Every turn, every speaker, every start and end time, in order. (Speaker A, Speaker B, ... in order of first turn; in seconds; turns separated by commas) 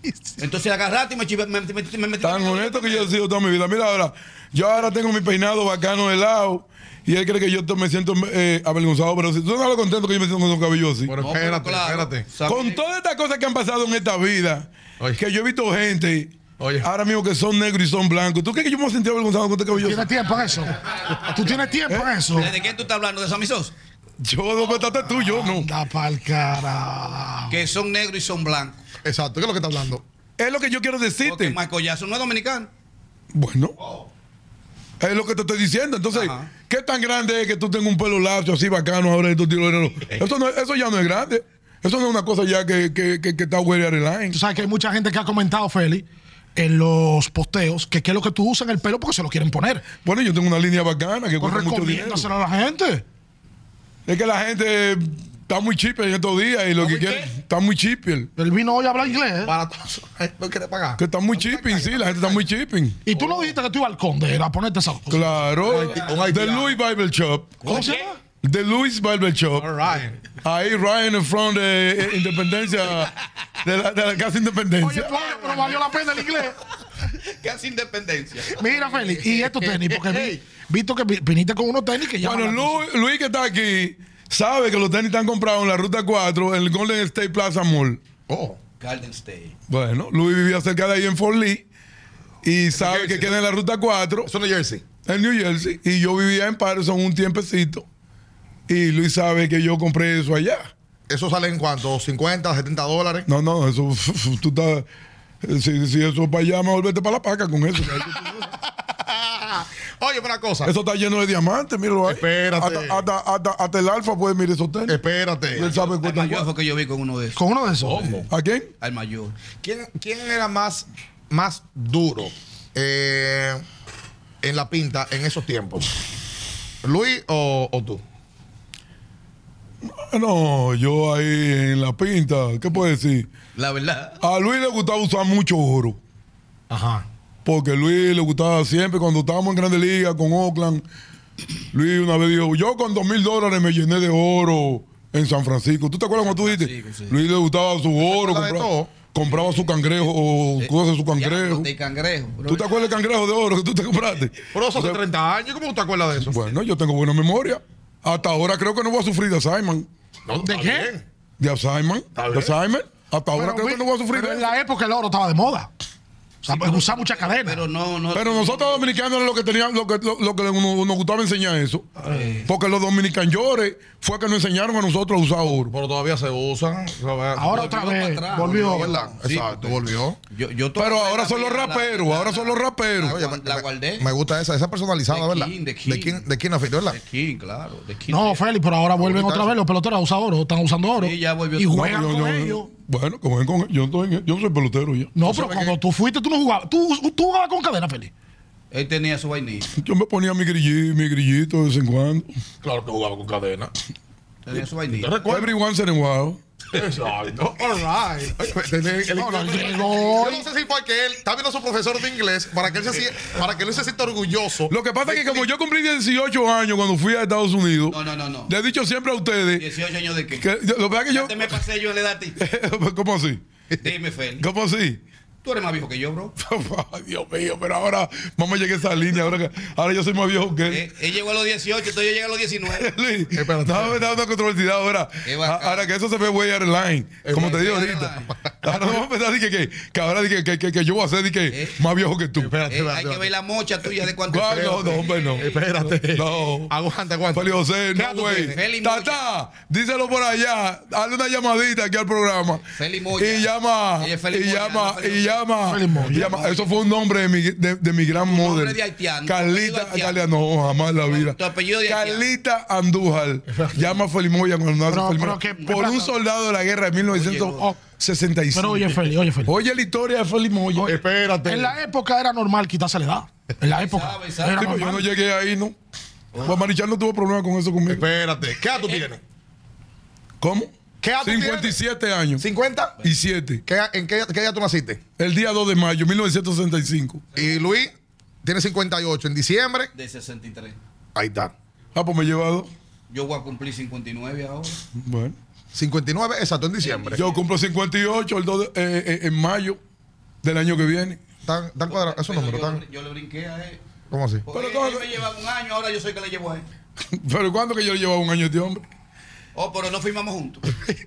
Speaker A: 0.4-3.1, Speaker B: 2.2-11.2, Speaker C: 11.1-12.3, Speaker A: 11.2-12.8, Speaker B: 12.4-20.1, Speaker C: 16.6-16.9, Speaker D: 19.8-22.6, Speaker A: 22.3-23.7, Speaker B: 24.2-25.7, Speaker D: 25.1-27.6, Speaker A: 27.5-28.8, Speaker C: 29.0-30.0, Speaker B: 30.4-31.6, Speaker A: 31.2-32.7, Speaker B: 33.3-33.8, Speaker B: 35.0-44.4, Speaker A: 36.1-36.5, Speaker D: 44.3-46.0, Speaker D: 46.6-49.9, Speaker B: 50.0-52.3, Speaker D: 51.4-53.0, Speaker B: 54.1-58.3, Speaker C: 56.8-57.3, Speaker D: 58.4-59.5, Speaker C: 59.4-62.5, Speaker B: 61.0-63.0, Speaker D: 63.1-65.4, Speaker C: 63.1-63.5, Speaker B: 65.1-67.8, Speaker C: 65.6-66.8, Speaker A: 67.6-68.1, Speaker D: 67.7-68.2, Speaker B: 68.4-69.7, Speaker C: 69.5-70.2, Speaker B: 70.4-75.3, Speaker D: 74.8-76.6, Speaker A: 77.0-79.3, Speaker D: 78.6-82.8, Speaker C: 79.3-80.4, Speaker B: 82.2-88.0, Speaker C: 88.3-88.6, Speaker A: 88.8-89.6, Speaker B: 89.7-91.7, Speaker B: 92.4-94.3, Speaker C: 92.7-93.3, Speaker C: 94.2-94.8, Speaker B: 95.0-97.9, Speaker B: 98.7-100.7, Speaker C: 101.1-103.3, Speaker B: 103.3-104.9, Speaker B: 105.4-108.5, Speaker C: 108.8-110.7, Speaker B: 110.7-115.0, Speaker C: 112.1-113.0, Speaker C: 114.9-115.7, Speaker B: 115.5-116.5, Speaker A: 115.7-117.4, Speaker D: 117.4-118.2, Speaker C: 117.8-118.3, Speaker B: 118.3-118.7, Speaker A: 118.8-119.3, Speaker C: 119.6-123.7, Speaker C: 124.4-125.9, Speaker C: 126.8-128.0, Speaker B: 129.8-133.3, Speaker A: 133.6-134.2, Speaker B: 134.2-136.0, Speaker C: 136.7-137.1, Speaker B: 137.4-140.8, Speaker B: 141.7-151.7, Speaker A: 146.2-147.2, Speaker C: 148.0-148.9, Speaker A: 149.2-152.9, Speaker B: 152.4-155.0, Speaker C: 154.5-156.4, Speaker B: 156.3-159.9, Speaker C: 160.3-161.0, Speaker D: 160.4-160.9, Speaker B: 161.4-164.5, Speaker C: 162.2-162.6, Speaker D: 163.3-165.7, Speaker D: 166.4-167.6, Speaker A: 166.5-168.9, Speaker B: 168.1-171.9, Speaker D: 172.1-172.3, Speaker A: 172.1-172.5, Speaker B: 172.5-175.7, Speaker C: 175.5-177.8, Speaker D: 177.4-179.0, Speaker A: 177.5-184.1, Speaker C: 178.4-180.2, Speaker B: 180.8-183.2, Speaker C: 183.1-187.0, Speaker A: 185.1-186.2, Speaker A: 186.9-188.4, Speaker D: 188.1-192.7, Speaker C: 189.0-189.5, Speaker A: 191.0-192.0, Speaker B: 191.7-195.1, Speaker D: 195.2-198.1, Speaker C: 195.2-195.8, Speaker A: 198.7-199.8, Speaker B: 199.8-202.3, Speaker C: 202.6-203.7, Speaker A: 204.4-205.2, Speaker C: 204.9-205.5, Speaker B: 205.2-206.4, Speaker C: 206.7-215.5, Speaker D: 209.2-210.5, Speaker B: 214.7-219.7, Speaker A: 217.9-218.5, Speaker A: 219.6-220.5, Speaker B: 220.4-221.6, Speaker A: 221.1-222.4, Speaker B: 222.4-223.4, Speaker A: 223.8-224.5, Speaker B: 224.4-225.0, Speaker A: 225.4-226.3, Speaker B: 226.4-230.9, Speaker A: 230.7-232.9, Speaker B: 232.7-242.6, Speaker C: 233.3-234.0, Speaker A: 235.2-235.9, Speaker C: 237.2-237.7, Speaker A: 237.3-238.3, Speaker C: 238.3-239.0, Speaker A: 241.5-241.8, Speaker C: 242.4-243.3, Speaker A: 242.7-245.3, Speaker B: 244.3-245.5, Speaker C: 244.4-248.6, Speaker B: 246.1-246.7, Speaker B: 247.3-252.7, Speaker A: 248.3-249.2, Speaker A: 252.8-255.4, Speaker B: 253.2-270.9, Speaker D: 255.6-256.4, Speaker A: 256.1-256.7, Speaker A: 258.1-260.3, Speaker A: 261.0-262.2, Speaker C: 263.5-263.9, Speaker D: 264.9-266.1, Speaker A: 267.1-267.7, Speaker D: 268.5-269.5, Speaker C: 270.8-271.8, Speaker D: 271.4-275.1, Speaker A: 273.6-274.8, Speaker B: 274.6-275.8, Speaker A: 276.3-276.6, Speaker B: 276.4-278.1, Speaker C: 277.9-279.2, Speaker A: 278.7-279.1, Speaker B: 280.4-282.4, Speaker C: 281.0-281.8, Speaker C: 282.4-283.0, Speaker B: 283.0-283.6, Speaker C: 283.6-285.0, Speaker B: 285.2-287.2, Speaker C: 287.4-287.9, Speaker C: 288.4-289.9, Speaker A: 289.9-290.8, Speaker C: 291.1-291.5, Speaker B: 291.9-292.7, Speaker A: 293.1-294.8, Speaker B: 294.9-295.4, Speaker C: 295.7-297.2, Speaker A: 296.8-297.4, Speaker B: 297.1-299.8, Speaker B: 300.4-301.2, Speaker C: 301.4-302.8, Speaker A: 301.9-303.8, Speaker C: 304.1-304.5, Speaker A: 304.5-306.7, Speaker B: 304.5-305.1, Speaker B: 307.1-308.9, Speaker A: 309.6-310.7